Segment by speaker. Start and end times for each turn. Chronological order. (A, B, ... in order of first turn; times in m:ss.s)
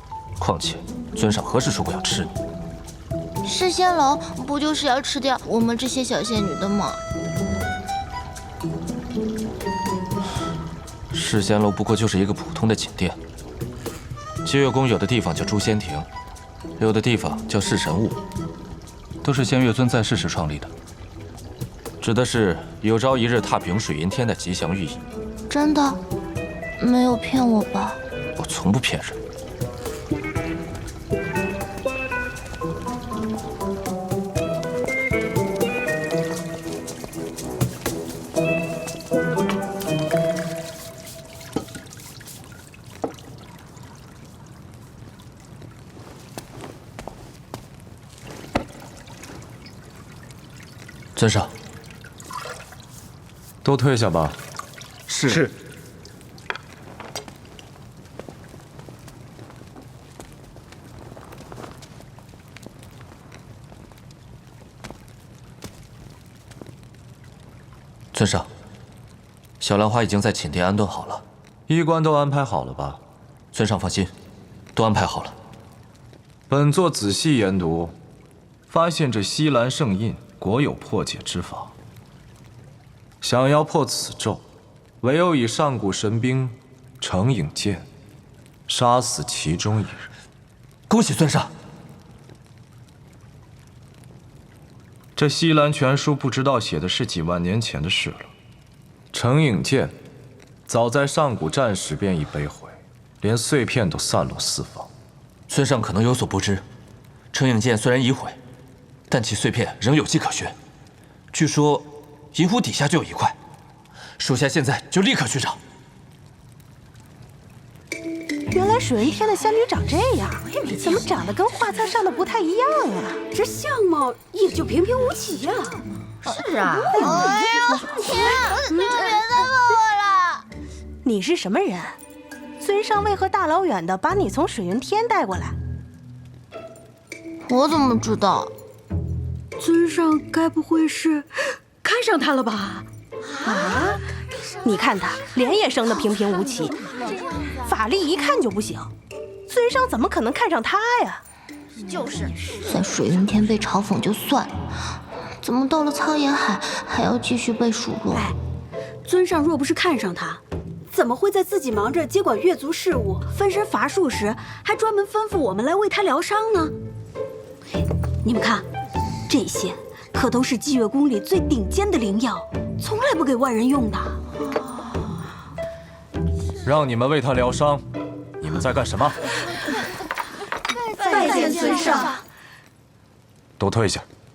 0:00.4-0:02.3 A
0:03.4-0:07.0 B
0:11.1-0:13.2 A
0:14.4-0:16.1 A
0:16.8-0:18.2 A
0:19.2-0:20.7 A
0:22.0-0:25.0 A
0:25.5-0:26.0 B
0:26.8-0:28.0 B
0:28.4-0:29.2 A
0:51.2-0:51.5 A
0:53.6-0:54.4 C
0:55.1-0:55.5 A
1:08.1-1:08.5 A
1:09.6-1:11.2 A
1:11.7-1:13.0 C
1:13.5-1:14.1 A
1:14.8-1:15.3 A
1:16.5-1:17.9 C
1:18.7-1:21.7 C
1:23.2-1:24.4 C
1:25.0-1:27.9 C
1:28.7-1:30.1 C
1:30.9-1:31.5 A
1:35.2-1:38.3 C
1:39.1-1:39.9 C
1:40.7-1:44.9 C
1:45.5-1:46.6 A
1:47.3-1:48.4 A
1:49.1-1:50.5 A
1:51.3-1:53.3 A
1:54.2-1:55.6 A
1:58.5-2:03.3 D
2:03.3-2:07.8 E
2:06.9-2:08.0 D
2:07.0-2:10.4 B
2:11.0-2:12.0 D
2:12.6-2:15.6 D
2:17.4-2:18.5 B
2:19.6-2:22.8 E
2:23.4-2:24.0 D
2:24.6-2:26.8 D
2:27.6-2:28.9 D
2:29.5-2:31.2 D
2:32.5-2:34.5 B
2:35.4-2:38.3 B
2:39.0-2:46.7 E
2:48.2-2:48.7 E
2:49.3-2:54.2 E
2:56.6-2:57.8 C
2:58.4-2:59.3 C
3:01.0-3:02.2 B
3:01.0-3:02.1 E
3:01.1-3:01.9 D
3:03.6-3:04.0 C